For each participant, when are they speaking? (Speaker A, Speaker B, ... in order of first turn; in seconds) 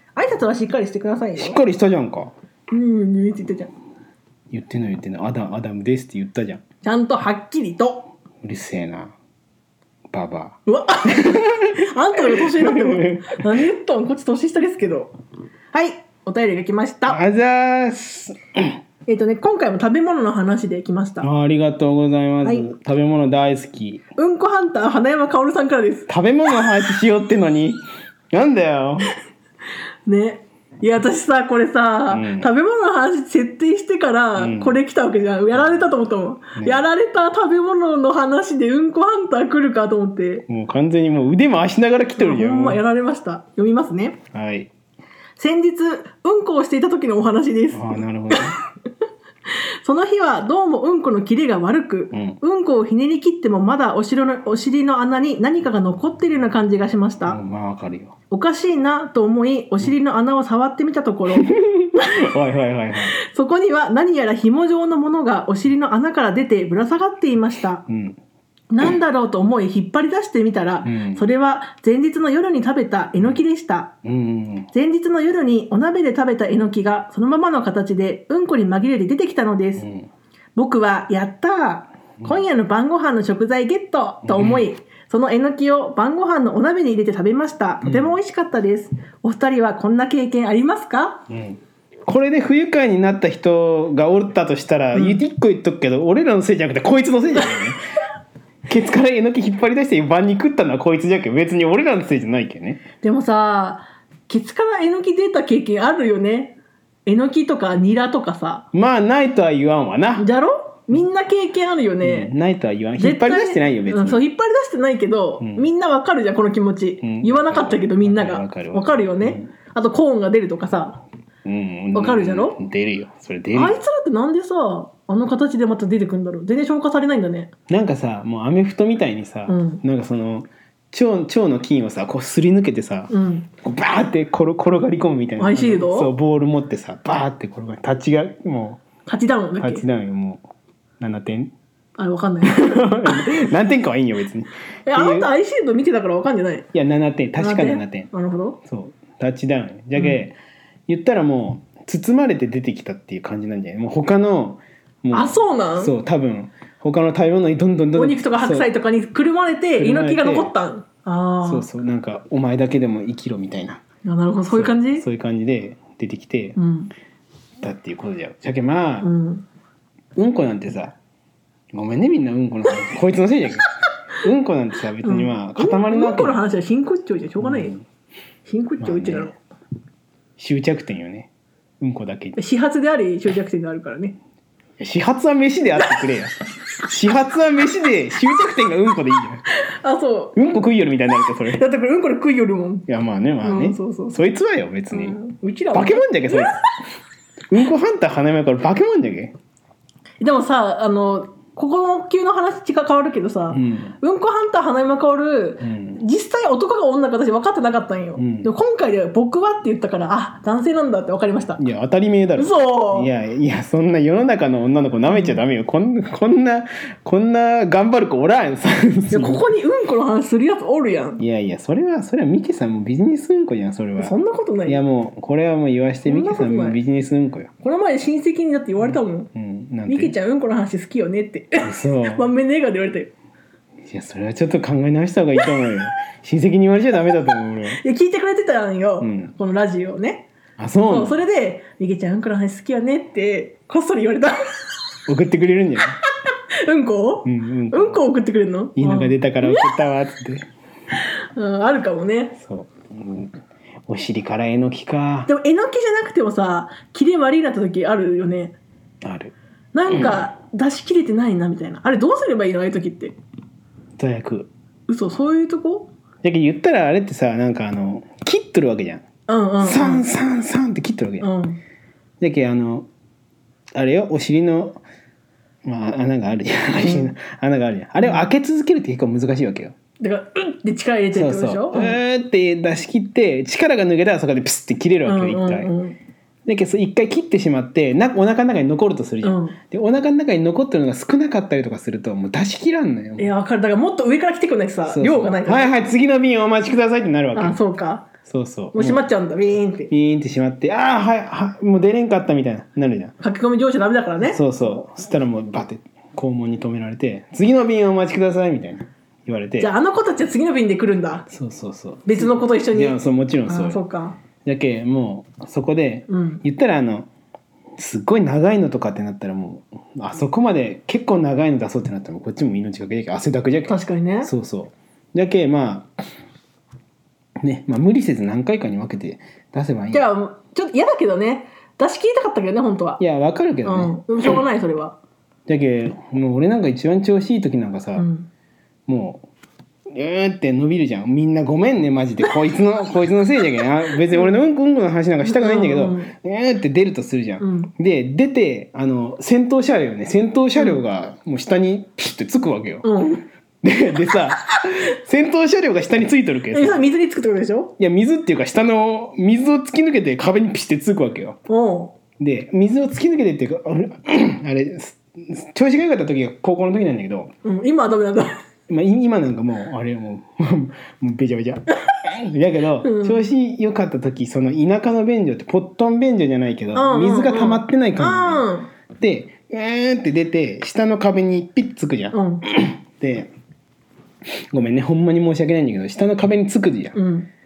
Speaker A: 0.1-1.6, 2.7-3.7, 6.8-8.1, 10.7-15.1, 15.7-17.2, 19.1-21.3, 24.1-26.1, 30.1-40.4, 42.2-44.2, 45.4-48.5, 49.8-57.4, 58.3-62.2, 63.2-67.8, 68.7-73.9, 74.7-79.8, 80.5-91.2, 94.9-95.2, 103.0-108.7, 110.2-112.3, 113.0-121.0, 121.9-122.6, 123.5-127.5, 129.5-129.8, 133.1-133.5, 135.4-136.1, 139.1-139.8, 142.0-143.3, 144.8-146.7, 147.4-148.6, 155.1-155.9, 157.9-161.7, 164.0-165.0, 166.6-166.9, 169.0-169.4, 175.0-177.7, 178.4-179.3, 182.4-184.2, 189.5-190.4, 191.5-192.8, 193.4-194.2, 194.9-196.6, 200.2-211.6, 212.3-213.1, 215.1-215.4, 219.1-221.2, 224.0-224.8, 226.1-226.8, 227.6-229.3, 229.9-233.1, 237.7-240.3, 240.9-244.4, 246.6-249.7, 251.3-252.3, 255.2-258.6, 259.7-263.1, 264.9-265.9, 269.3-270.0, 271.2-271.6, 276.7-277.1, 278.0-278.3, 280.0-282.0, 285.0-286.0, 289.2-289.6, 293.2-295.7, 297.3-298.1, 298.7-299.9, 303.2-304.5, 309.6-311.3, 312.1-314.2, 316.1-316.4, 323.7-324.3, 329.9-333.0, 333.6-335.0, 337.9-338.3, 344.1-344.4, 345.2-346.1, 347.4-347.7, 352.8-353.2, 356.5-357.7, 361.5-361.9, 367.4-368.3, 372.8-373.2, 376.7-378.7, 382.1-382.4, 386.9-387.3
Speaker B: 1.4-2.3, 4.5-6.6, 8.4-9.1, 10.1-10.6, 11.1-11.6, 12.2-13.6, 17.1-18.7, 21.2-24.0, 26.1-27.8, 28.3-29.1, 32.1-32.5, 34.4-34.8, 36.6-36.8, 40.5-42.8, 44.3-44.7, 47.7-48.6, 52.1-52.4, 57.2-58.1, 61.3-63.1, 67.9-68.2, 70.8-71.3, 74.0-74.7, 79.8-80.1, 84.2-84.7, 87.8-88.1, 91.3-97.8, 98.7-102.8, 108.7-110.3, 112.0-114.2, 115.4-115.7, 117.0-119.5, 121.4-123.8, 127.7-138.8, 139.6-140.4, 141.0-141.5, 142.4-145.3, 146.7-148.1, 148.6-150.3, 150.9-158.7, 159.8-160.5, 161.4-163.8, 164.5-166.6, 167.6-169.1, 170.2-170.9, 171.7-173.6, 174.2-176.4, 177.4-177.8, 178.8-179.3, 180.4-181.3, 181.8-182.4, 184.8-189.4, 190.3-191.6, 192.9-195.2, 195.7-196.6, 197.5-199.3, 203.5-203.9, 205.6-206.0, 208.2-208.5, 211.6-219.4, 221.2-227.5, 229.3-230.2, 231.6-232.3, 233.8-237.8, 239.0-239.3, 240.6-241.2, 245.1-246.0, 247.2-248.0, 248.8-250.5, 252.3-255.3, 259.0-259.3, 259.9-260.2, 264.0-264.5, 266.2-269.0, 269.6-271.3, 272.2-272.9, 273.7-274.8, 275.6-279.7, 281.1-285.7, 286.4-293.3, 294.9-297.6, 298.2-299.1, 299.9-303.1, 304.2-309.7, 311.3-313.8, 314.4-317.1, 317.8-325.9, 327.4-330.1, 333.0-334.4, 335.5-338.1, 338.9-339.2, 339.9-352.9, 353.6-356.8, 357.8-361.4, 362.2-367.3, 368.7-378.4, 379.0-383.3, 384.5-387.0